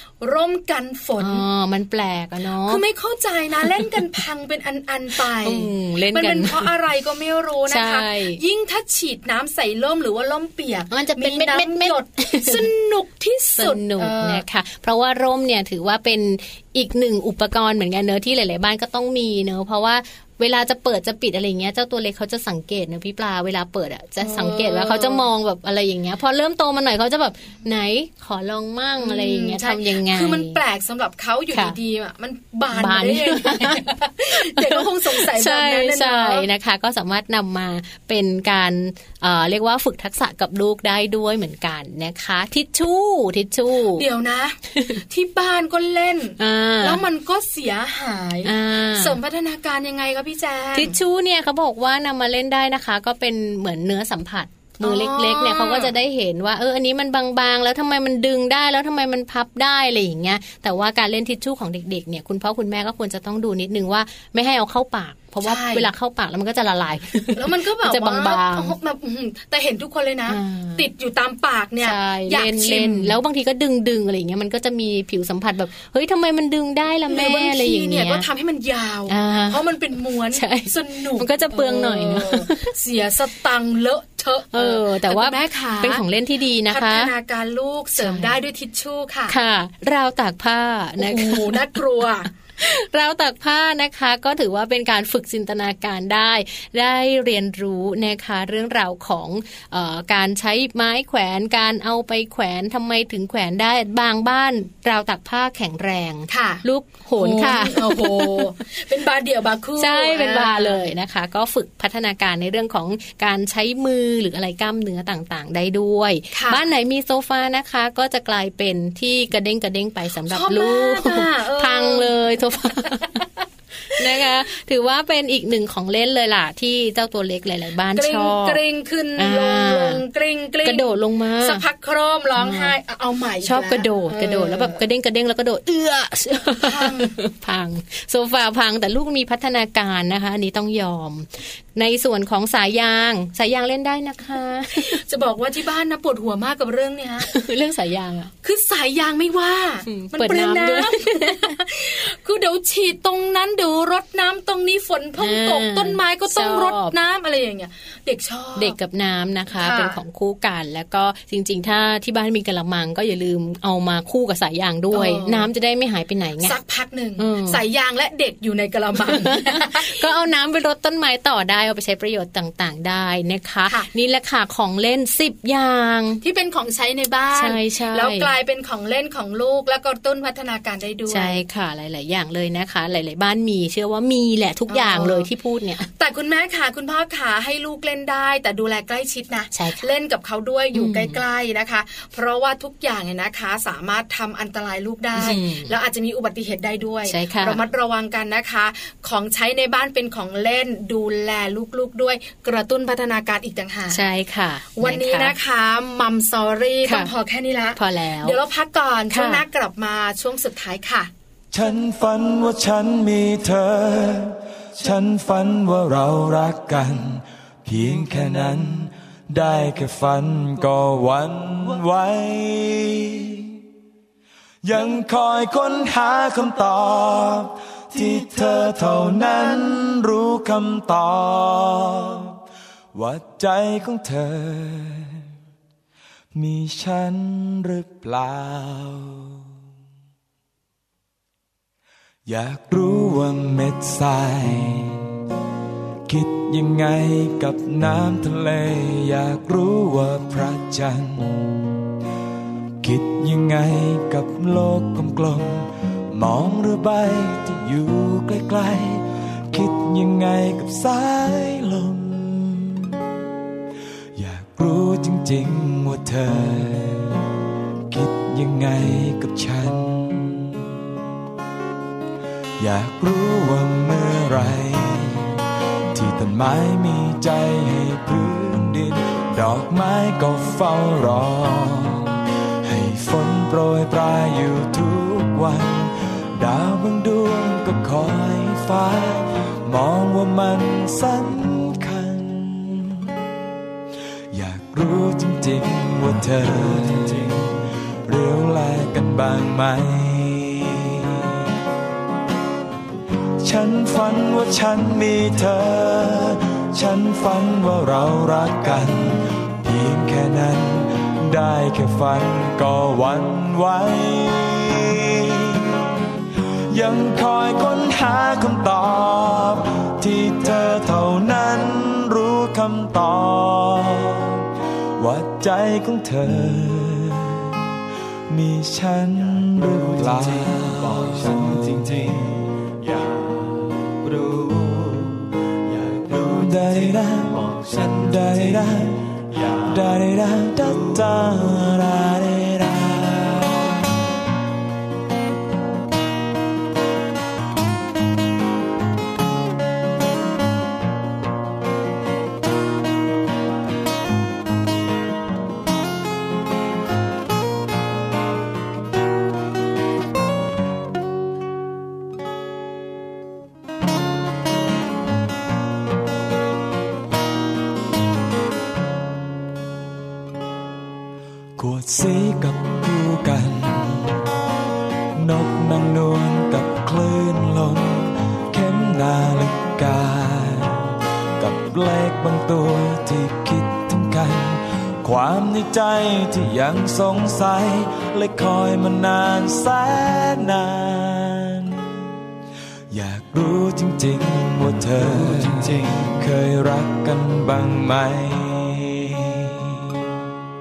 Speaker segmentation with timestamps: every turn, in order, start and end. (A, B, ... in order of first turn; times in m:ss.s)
0:00.2-0:01.4 A
0:01.2-0:02.8 B
0:02.7-0:14.4 A
0:05.4-0:06.7 B
0:07.7-0:08.4 B
0:10.9-0:12.7 B
0:13.6-0:30.6 B
0:24.2-0:25.2 A
0:29.0-0:36.5 A
0:31.5-0:31.8 B
0:32.7-0:44.0 B
0:44.0-0:51.0 A
0:44.8-0:45.0 B
0:46.4-0:47.0 B
0:48.4-0:49.2 B
0:50.8-1:08.7 B
0:54.8-0:55.9 A
1:05.4-1:05.9 A
1:07.3-1:13.2 A
1:10.3-1:10.9 B
1:11.8-1:18.3 B
1:17.1-1:26.0 A
1:19.1-1:19.6 B
1:20.3-1:22.7 B
1:24.5-1:27.1 B
1:26.7-1:29.4 A
1:28.0-1:28.4 B
1:29.3-1:31.8 B
1:31.0-1:32.3 A
1:32.6-1:48.5 B
1:46.3-1:46.6 A
1:47.2-1:50.8 A
1:49.8-2:03.2 B
1:56.3-1:56.6 A
2:00.3-2:02.2 A
2:02.9-2:03.2 A
2:03.9-2:08.6 B
2:08.0-2:10.9 A
2:09.2-2:10.0 B
2:10.6-2:11.6 B
2:11.4-2:14.8 A
2:12.4-2:12.8 B
2:13.4-2:25.0 B
2:16.6-2:17.2 A
2:24.8-2:27.3 A
2:27.3-2:28.3 B
2:28.4-2:38.8 A
2:29.9-2:31.6 B
2:35.2-2:37.0 B
2:38.6-2:46.6 B
2:39.6-2:40.0 A
2:44.9-2:45.5 A
2:46.4-2:50.1 A
2:47.2-2:47.6 B
2:49.0-2:56.2 B
2:56.2-3:01.4 A
2:57.3-2:58.3 B
3:01.1-3:05.9 B
3:04.7-3:05.3 A
3:06.0-3:24.0 A
3:09.6-3:09.8 B
3:10.7-3:11.2 B
3:15.2-3:15.7 B
3:17.1-3:17.6 B
3:23.9-3:25.4 B
3:24.8-3:31.1 A
3:26.8-3:27.1 B
3:27.8-3:28.4 B
3:29.1-3:29.4 B
3:31.5-3:43.6 C
3:44.6-3:52.4 C
3:48.0-3:49.3 D
3:52.9-3:55.2 C
3:56.3-3:59.4 C
4:02.3-4:05.0 C
4:06.1-4:11.6 C
4:12.8-4:22.9 C
4:24.2-4:27.2 C
4:27.9-4:30.6 C
4:32.6-4:35.4 C
4:35.9-4:53.1 C
4:54.3-5:01.3 C
4:56.2-4:57.3 D
5:03.4-5:15.8 C
5:16.7-5:24.4 C
5:25.0-5:27.5 C
5:28.3-5:31.9 C
5:29.2-5:39.8 D
5:36.3-5:39.0 C
5:39.6-5:43.8 C
5:40.6-5:41.2 D
6:11.6-6:14.2 C
6:15.2-6:31.7 C
6:32.9-6:39.6 C
6:34.9-6:36.2 D